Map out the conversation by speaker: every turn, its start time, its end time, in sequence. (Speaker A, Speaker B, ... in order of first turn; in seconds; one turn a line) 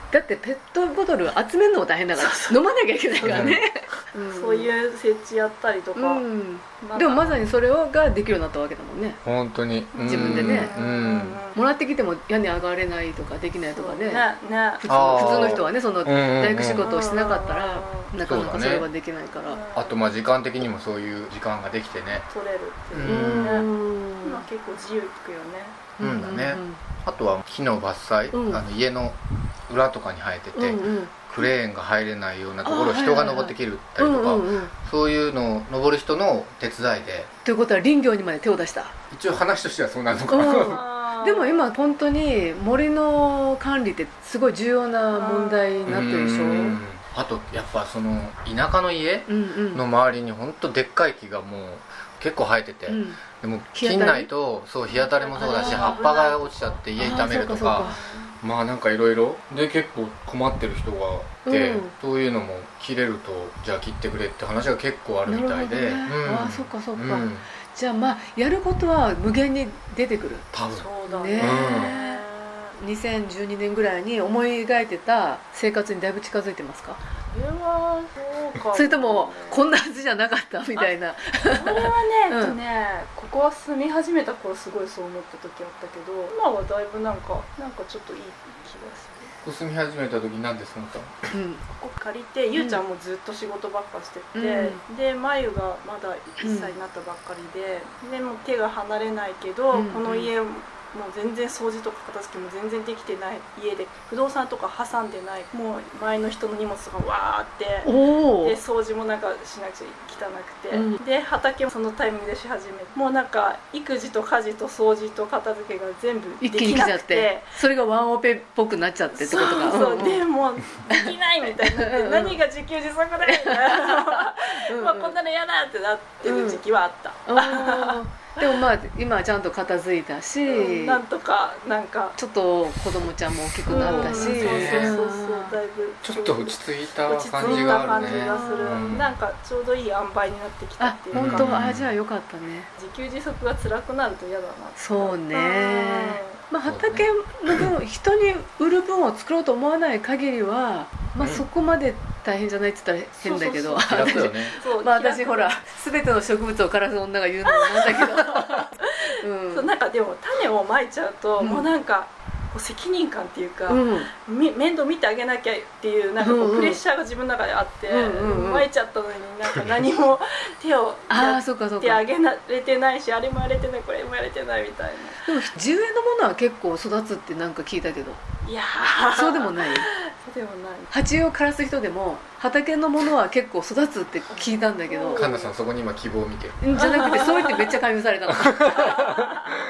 Speaker A: 0.1-4.7
Speaker B: 2.1-6.2
Speaker C: 3.2-3.6
Speaker A: 5.9-9.2
Speaker B: 6.8-7.5
Speaker C: 9.2-11.4
Speaker B: 9.9-11.6
Speaker A: 10.1-10.7
Speaker A: 11.5-14.2
Speaker B: 13.7-14.8
Speaker A: 14.8-19.6
Speaker C: 14.8-16.9
Speaker B: 16.8-18.1
Speaker C: 18.2-18.9
Speaker B: 19.3-20.0
Speaker C: 19.7-22.2
Speaker B: 22.2-25.9
Speaker C: 22.9-23.6
Speaker A: 23.0-24.4
Speaker A: 26.0-26.8
Speaker C: 26.0-37.3
Speaker A: 28.3-28.6
Speaker A: 30.5-31.1
Speaker A: 32.6-34.7
Speaker A: 37.4-38.9
Speaker C: 39.1-40.8
Speaker A: 40.3-46.8
Speaker B: 40.6-41.7
Speaker B: 45.1-46.0
Speaker C: 45.9-67.5
Speaker A: 49.3-49.8
Speaker A: 52.9-53.2
Speaker A: 53.7-54.3
Speaker B: 54.9-56.9
Speaker A: 55.4-56.1
Speaker A: 57.0-58.0
Speaker B: 57.7-58.4
Speaker A: 61.5-61.9
Speaker A: 65.3-70.5
Speaker C: 70.5-72.0
Speaker B: 70.7-72.8
Speaker A: 71.1-72.2
Speaker A: 72.8-77.0
Speaker B: 77.3-79.7
Speaker A: 78.7-82.6
Speaker B: 80.8-89.3
Speaker C: 89.4-91.3
Speaker A: 91.3-91.6
Speaker B: 91.7-117.6
Speaker A: 92.5-92.8
Speaker A: 94.3-94.8
Speaker A: 96.4-96.7
Speaker A: 99.7-100.3
Speaker A: 107.8-108.6
Speaker A: 110.7-111.0
Speaker A: 116.4-120.2
Speaker B: 119.1-128.7
Speaker A: 120.9-122.4
Speaker A: 123.2-125.1
Speaker A: 126.2-126.6
Speaker A: 127.3-131.0
Speaker B: 130.4-132.2
Speaker A: 132.2-135.6
Speaker C: 133.6-135.0
Speaker B: 133.7-141.5
Speaker C: 136.0-139.2
Speaker A: 137.4-139.0
Speaker A: 140.8-142.7
Speaker C: 141.1-141.9
Speaker B: 142.8-146.4
Speaker A: 144.8-159.7
Speaker C: 146.6-147.7
Speaker B: 153.2-155.5
Speaker C: 153.8-154.6
Speaker B: 157.5-158.9
Speaker B: 159.5-175.4
Speaker A: 161.4-161.7
Speaker A: 163.7-164.1
Speaker A: 166.2-166.8
Speaker A: 167.9-168.7
Speaker A: 171.1-172.0
Speaker A: 175.2-178.2
Speaker B: 178.4-180.9
Speaker A: 179.1-179.9
Speaker A: 180.9-185.3
Speaker B: 184.3-185.5
Speaker C: 185.1-186.7
Speaker A: 186.6-189.0
Speaker B: 186.8-187.7
Speaker C: 188.5-189.5
Speaker B: 188.7-189.4